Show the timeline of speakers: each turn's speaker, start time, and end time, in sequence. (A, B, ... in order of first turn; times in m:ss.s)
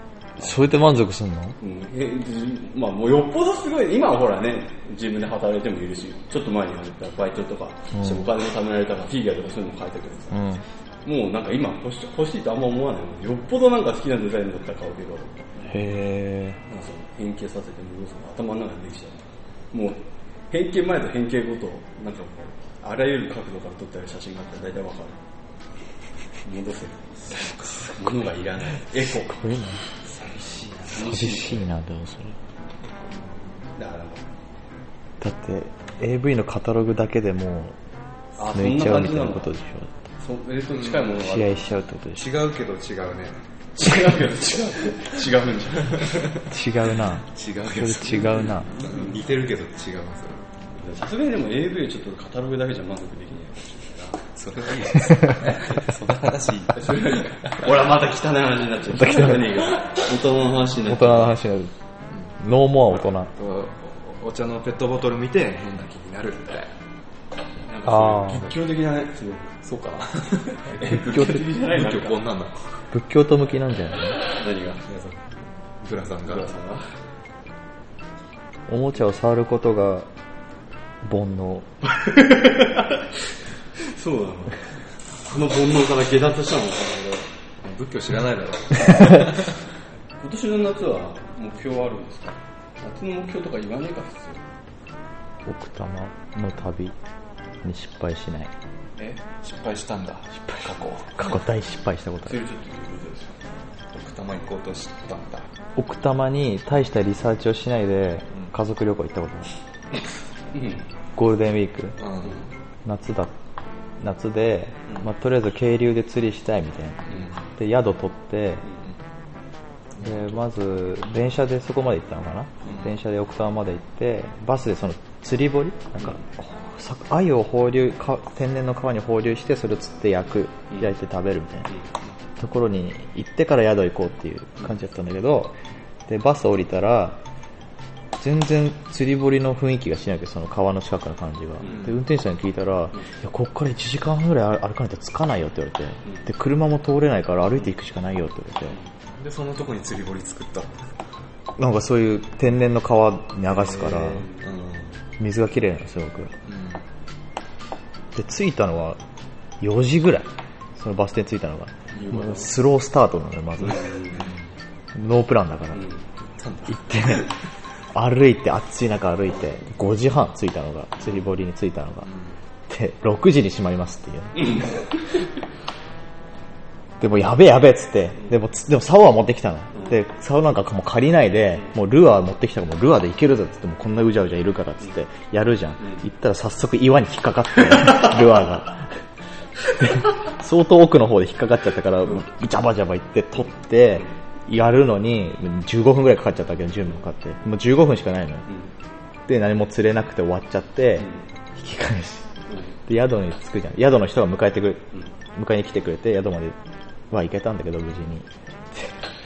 0:00.4-0:01.6 A
0:01.6-0:10.5 B
0:10.3-0:10.6 A
0:11.0-0:15.8 B
0:15.7-0:16.6 A
0:16.7-0:25.2 B
0:26.4-0:27.1 B
0:27.4-0:27.9 C
0:27.8-0:29.4 B
0:29.1-0:29.8 A
0:30.0-0:31.0 C
0:30.9-0:31.7 B
0:30.9-0:32.4 A
0:33.1-0:33.4 C
0:33.8-0:34.2 B
0:35.2-0:37.8 A
0:38.4-0:39.5 B
0:38.4-0:39.9 A
0:40.2-0:41.6 B
0:40.8-0:41.1 C
0:41.2-0:42.3 A
0:42.2-0:43.4 C
0:43.8-0:46.4 B
0:46.4-0:48.7 A
0:47.3-0:50.5 C
0:48.7-0:49.1 B
0:50.8-0:54.2 B
0:54.3-0:57.7 C
0:56.7-1:01.4 B
0:59.0-0:59.6 A
1:00.9-1:01.7 A
1:02.1-1:02.4 C
1:02.4-1:03.3 A
1:02.9-1:06.7 C
1:07.7-1:09.5 B
1:07.9-1:08.4 A
1:08.2-1:08.5 C
1:09.6-1:12.6 C
1:10.7-1:12.2 B
1:10.9-1:11.4 A
1:12.9-1:14.2 A
1:14.2-1:14.8 B
1:14.9-1:16.6 C
1:16.2-1:16.9 B
1:18.7-1:20.1 A
1:21.0-1:21.7 A
1:22.0-1:23.2 B
1:23.8-1:24.7 B
1:25.2-1:27.3 B
1:27.6-1:29.5 C
1:30.2-1:34.4 B
1:35.5-1:37.0 A
1:37.6-1:38.5 A
1:39.4-1:41.3 C
1:40.5-1:42.4 A
1:42.3-1:43.4 B
1:43.9-1:45.5 C
1:45.8-1:49.5 A
1:50.5-1:50.8 B
1:51.2-1:52.0 A
1:52.0-1:52.4 C
1:52.8-1:53.4 A
1:54.0-1:57.0 A
1:57.6-1:58.6 A
2:00.0-2:00.4 C
2:00.0-2:11.7 A
2:02.6-2:02.9 C
2:12.4-2:17.2 A
2:18.2-2:28.8 A
2:21.7-2:22.0 C
2:29.1-2:30.8 C
2:31.6-2:34.3 A
2:34.0-2:34.5 B
2:34.4-2:35.0 C
2:35.2-2:36.4 A
2:36.5-2:36.8 C
2:38.1-2:39.0 A
2:39.6-2:44.0 A
2:42.0-2:42.4 C
2:42.0-2:42.4 B
2:43.6-2:44.3 B
2:44.1-2:44.4 C
2:44.9-2:45.8 A
2:45.8-2:46.0 B
2:46.4-2:47.3 C
2:46.7-2:47.3 A
2:47.9-2:52.1 A
2:52.1-2:52.4 C
2:52.7-2:54.7 A
2:54.4-2:54.8 B
2:57.0-3:09.0 A
3:09.7-3:18.5 A
3:19.3-3:22.3 A
3:22.5-3:22.8 B
3:22.9-3:26.6 A
3:27.1-3:29.0 A